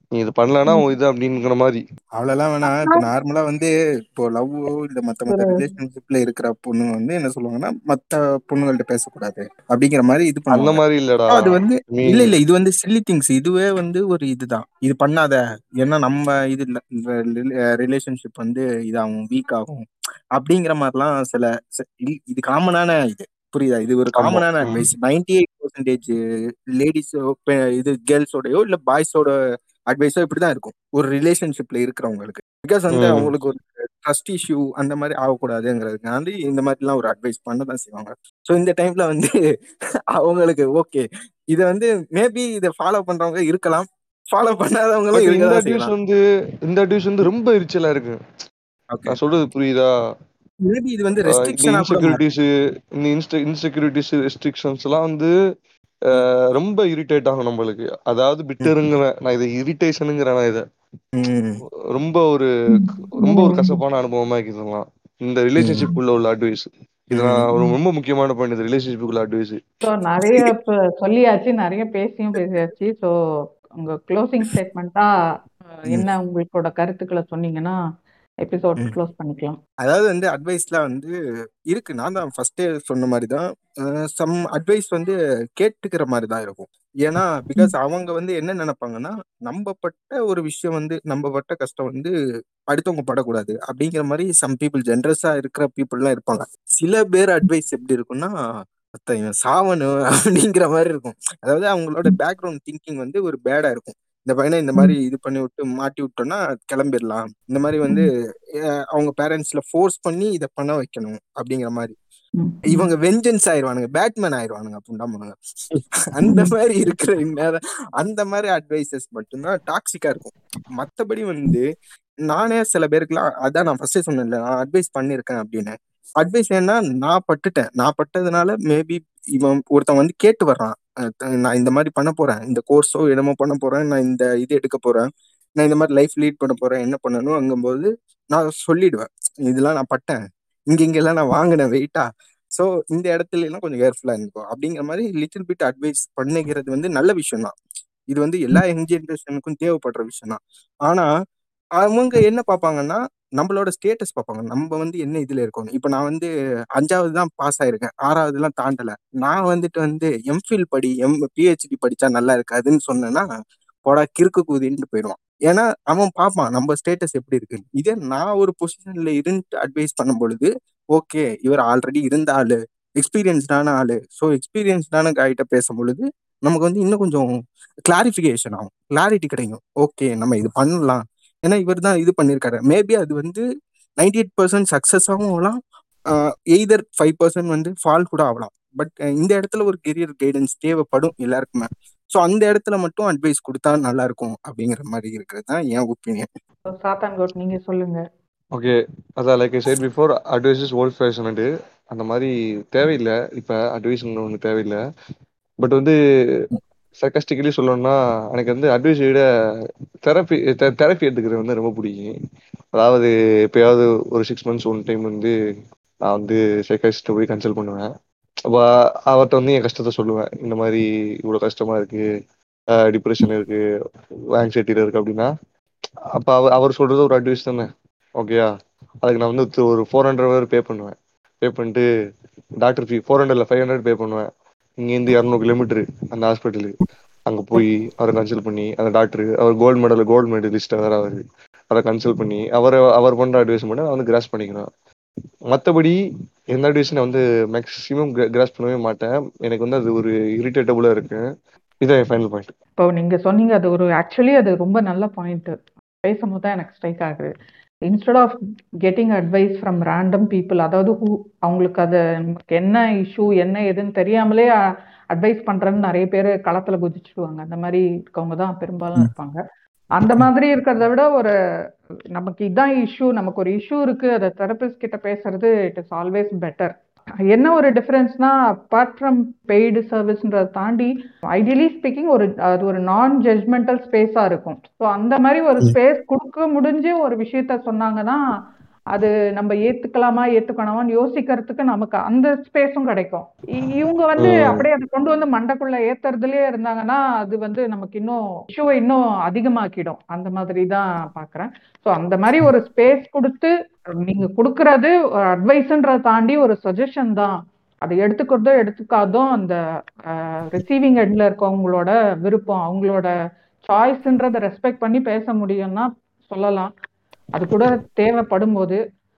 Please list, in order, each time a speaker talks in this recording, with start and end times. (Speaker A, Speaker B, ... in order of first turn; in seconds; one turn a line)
Speaker A: 0.1-1.8
Speaker B: 2.2-19.8
Speaker C: 2.6-3.0
Speaker C: 5.3-5.6
Speaker A: 10.5-12.3
Speaker B: 20.4-26.1
Speaker A: 24.1-24.9
Speaker B: 26.8-29.3
Speaker B: 29.9-39.3
Speaker A: 32.9-33.3
Speaker B: 40.1-45.9
Speaker A: 45.1-48.2
Speaker A: 49.1-49.9
Speaker B: 50.6-52.2
Speaker A: 51.3-52.5
Speaker A: 53.0-55.3
Speaker A: 56.1-60.6
Speaker B: 61.1-61.6
Speaker A: 61.9-62.5
Speaker C: 62.7-63.8
Speaker A: 63.2-69.6
Speaker B: 65.6-65.9
Speaker B: 67.1-67.4
Speaker C: 69.8-73.1
Speaker B: 70.2-70.5
Speaker C: 73.8-75.1
Speaker C: 75.8-77.8
Speaker C: 78.4-79.6
Speaker B: 79.8-81.1
Speaker B: 81.7-83.4
Speaker B: 84.1-92.1
Speaker B: 92.7-98.3
Speaker B: 99.0-108.1
Speaker B: 108.9-112.0
Speaker C: 112.4-112.9
Speaker B: 112.7-115.3
Speaker B: 116.2-121.6
Speaker C: 116.2-116.5
Speaker B: 122.3-135.1
Speaker B: 135.6-140.2
Speaker B: 140.7-147.5
Speaker B: 148.1-151.1
Speaker B: 151.8-163.2
Speaker B: 163.9-177.3
Speaker B: 177.9-183.4
Speaker B: 184.0-185.6
Speaker B: 186.1-196.3
Speaker C: 196.7-198.0
Speaker A: 198.5-204.8
Speaker A: 205.6-205.9
Speaker A: 207.0-209.2
Speaker A: 210.0-212.1
Speaker A: 212.7-215.3
Speaker A: 216.1-217.9
Speaker A: 218.5-222.1
Speaker A: 222.9-223.6
Speaker A: 224.3-225.3
Speaker A: 226.2-228.5
Speaker A: 229.0-231.8
Speaker A: 232.6-234.3
Speaker A: 234.8-244.7
Speaker A: 245.5-246.0
Speaker A: 246.5-251.2
Speaker A: 251.8-252.5
Speaker C: 252.8-257.3
Speaker C: 257.9-264.5
Speaker C: 265.1-269.4
Speaker C: 270.0-271.3
Speaker C: 272.1-276.7
Speaker C: 277.3-288.2
Speaker C: 288.9-303.5
Speaker A: 294.2-294.6
Speaker C: 304.0-307.3
Speaker C: 307.9-309.6
Speaker C: 310.1-313.1
Speaker C: 313.6-316.7
Speaker C: 317.4-318.8